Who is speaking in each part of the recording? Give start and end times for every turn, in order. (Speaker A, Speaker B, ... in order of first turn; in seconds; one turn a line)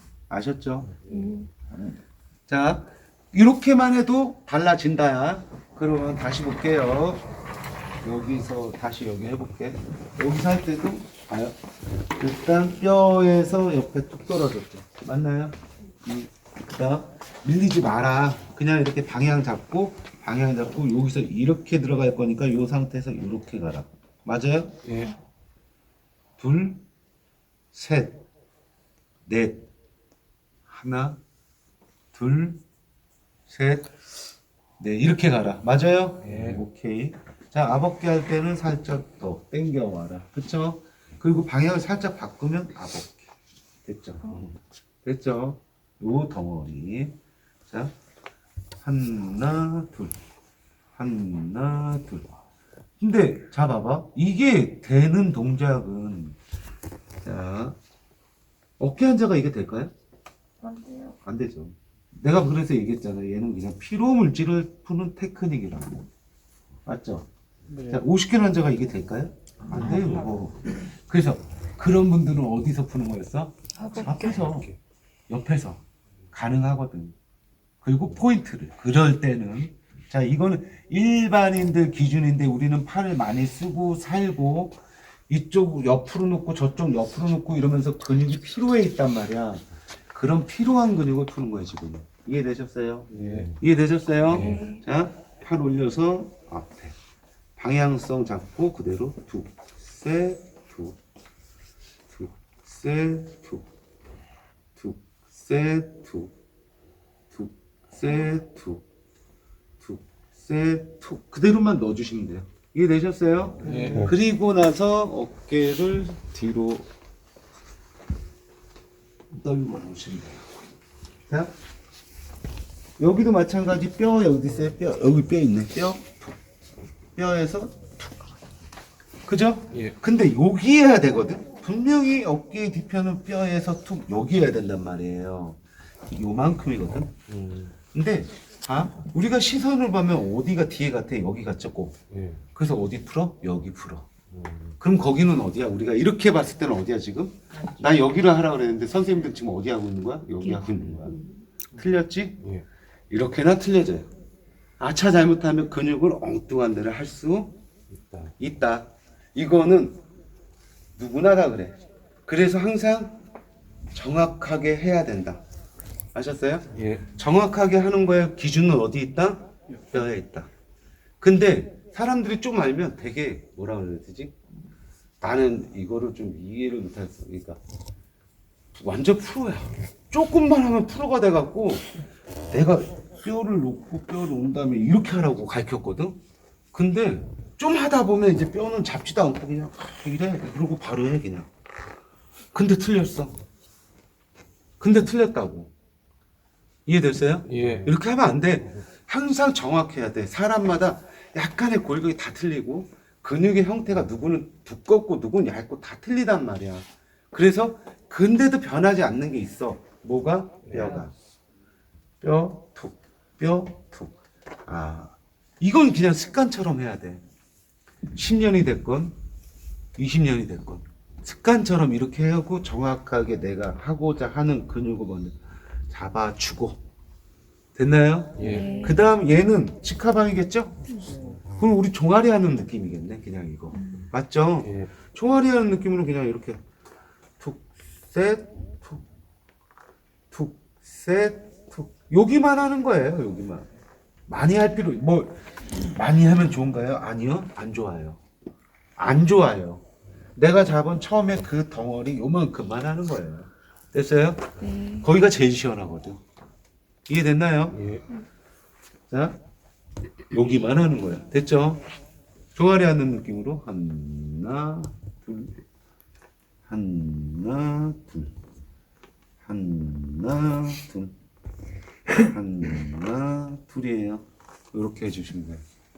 Speaker A: 0.3-1.0
Speaker B: 1.1-1.5
Speaker A: 2.5-7.2
Speaker A: 8.0-11.6
Speaker A: 12.2-24.8
Speaker C: 24.9-25.1
Speaker A: 26.4-26.8
Speaker A: 27.7-28.2
Speaker A: 29.3-29.7
Speaker A: 30.7-31.2
Speaker A: 32.1-32.6
Speaker A: 33.5-34.1
Speaker A: 34.8-43.3
Speaker C: 36.2-36.6
Speaker A: 43.8-44.4
Speaker A: 45.0-47.1
Speaker A: 47.7-47.9
Speaker A: 48.8-50.1
Speaker A: 51.0-52.3
Speaker A: 53.0-56.4
Speaker A: 57.2-57.8
Speaker A: 58.8-59.9
Speaker B: 60.6-61.1
Speaker A: 61.2-66.1
Speaker A: 66.9-67.3
Speaker C: 67.7-68.1
Speaker A: 67.8-74.8
Speaker C: 74.2-74.7
Speaker A: 75.3-77.1
Speaker A: 77.8-97.0
Speaker C: 93.1-93.6
Speaker C: 94.3-94.7
Speaker B: 94.4-94.6
Speaker A: 97.6-101.0
Speaker A: 102.1-103.7
Speaker A: 104.8-106.3
Speaker A: 107.3-108.8
Speaker A: 109.8-116.9
Speaker C: 113.6-114.1
Speaker A: 119.3-120.5
Speaker A: 121.3-121.5
Speaker A: 123.0-126.4
Speaker A: 127.2-128.0
Speaker A: 129.3-137.1
Speaker C: 137.3-137.7
Speaker A: 137.9-142.0
Speaker C: 142.1-142.4
Speaker A: 142.6-144.1
Speaker C: 144.3-144.7
Speaker A: 144.8-151.2
Speaker A: 151.8-152.4
Speaker A: 153.1-154.1
Speaker A: 154.8-157.6
Speaker C: 157.9-158.3
Speaker A: 158.4-160.0
Speaker A: 161.0-163.2
Speaker A: 163.9-165.4
Speaker A: 166.1-170.5
Speaker C: 166.8-167.0
Speaker A: 171.2-174.4
Speaker A: 175.2-177.6
Speaker A: 178.7-181.9
Speaker A: 182.5-186.2
Speaker A: 186.7-191.5
Speaker A: 192.5-193.4
Speaker A: 194.8-195.7
Speaker A: 196.9-211.1
Speaker C: 197.5-197.9
Speaker A: 212.2-214.1
Speaker A: 214.7-217.2
Speaker A: 218.1-219.1
Speaker A: 219.9-225.4
Speaker A: 225.9-226.8
Speaker A: 227.8-230.8
Speaker C: 228.4-228.8
Speaker B: 228.4-229.0
Speaker A: 231.5-236.6
Speaker A: 237.4-239.0
Speaker A: 240.3-243.7
Speaker A: 244.3-248.2
Speaker A: 249.0-249.8
Speaker A: 250.4-256.2
Speaker B: 254.6-255.0
Speaker A: 257.1-257.9
Speaker C: 257.7-258.0
Speaker A: 259.1-259.4
Speaker A: 260.3-261.8
Speaker A: 262.6-265.6
Speaker A: 266.6-268.3
Speaker A: 269.4-271.1
Speaker A: 272.2-275.6